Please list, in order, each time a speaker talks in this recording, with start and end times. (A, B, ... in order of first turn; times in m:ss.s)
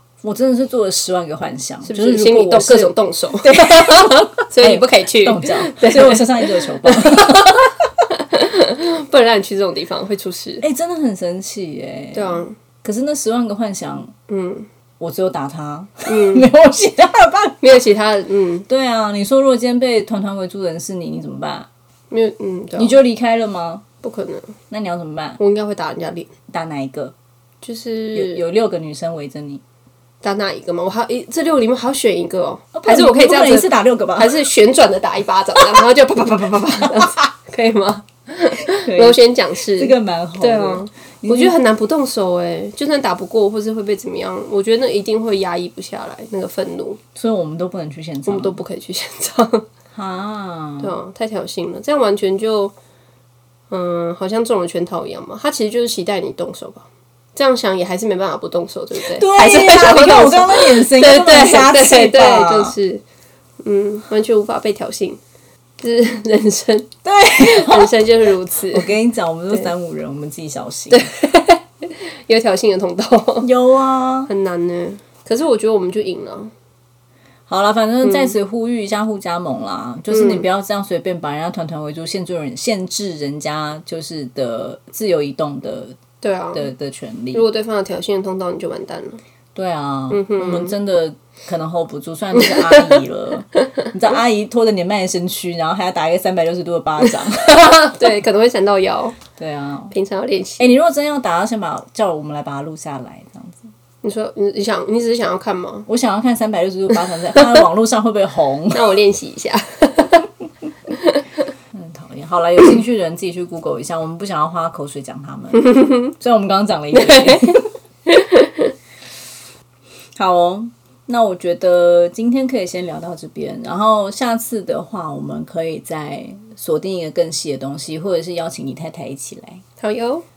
0:00.2-0:07.7 A
0:01.8-0:10.6 B
0:10.6-0:14.1 A
0:12.1-0:12.6 B
0:14.3-0:14.7 B
0:15.0-0:17.8 A
0:16.0-0:16.5 B
0:17.6-0:18.7 B
0:18.7-0:21.7 A
0:22.1-0:23.0 B
0:22.8-0:23.8 A
0:24.0-0:24.5 B
0:24.7-0:25.4 A
0:25.4-0:26.3 B
0:26.5-0:27.1 A
0:27.6-0:28.4 B
0:28.1-0:29.6 A
0:30.2-0:47.0 B
0:32.8-0:34.4 A
0:38.7-0:41.6 A
0:47.1-0:48.6 A
0:48.2-0:49.6 B
0:49.9-0:50.9 A
0:50.8-0:52.7 B
0:53.7-1:03.0 B
0:59.1-1:02.8 A
1:03.6-1:05.2 B
1:05.8-1:08.9 B
1:07.0-1:08.0 A
1:08.7-1:11.1 A
1:10.9-1:13.5 B
1:13.4-1:14.3 A
1:14.3-1:16.5 B
1:17.5-1:26.0 A
1:18.0-1:18.4 B
1:20.1-1:20.4 B
1:26.2-1:26.7 B
1:26.5-1:27.4 A
1:27.3-1:29.2 B
1:29.5-1:37.9 A
1:30.1-1:30.8 B
1:32.3-1:33.0 B
1:37.2-1:39.2 B
1:39.4-1:39.9 A
1:39.9-1:40.7 B
1:40.6-1:43.7 A
1:44.0-1:45.9 B
1:45.9-1:48.9 A
1:48.7-1:50.2 B
1:51.7-1:57.7 A
1:55.6-1:56.1 B
1:56.9-1:58.7 B
2:00.2-2:09.6 A
2:09.8-2:10.2 B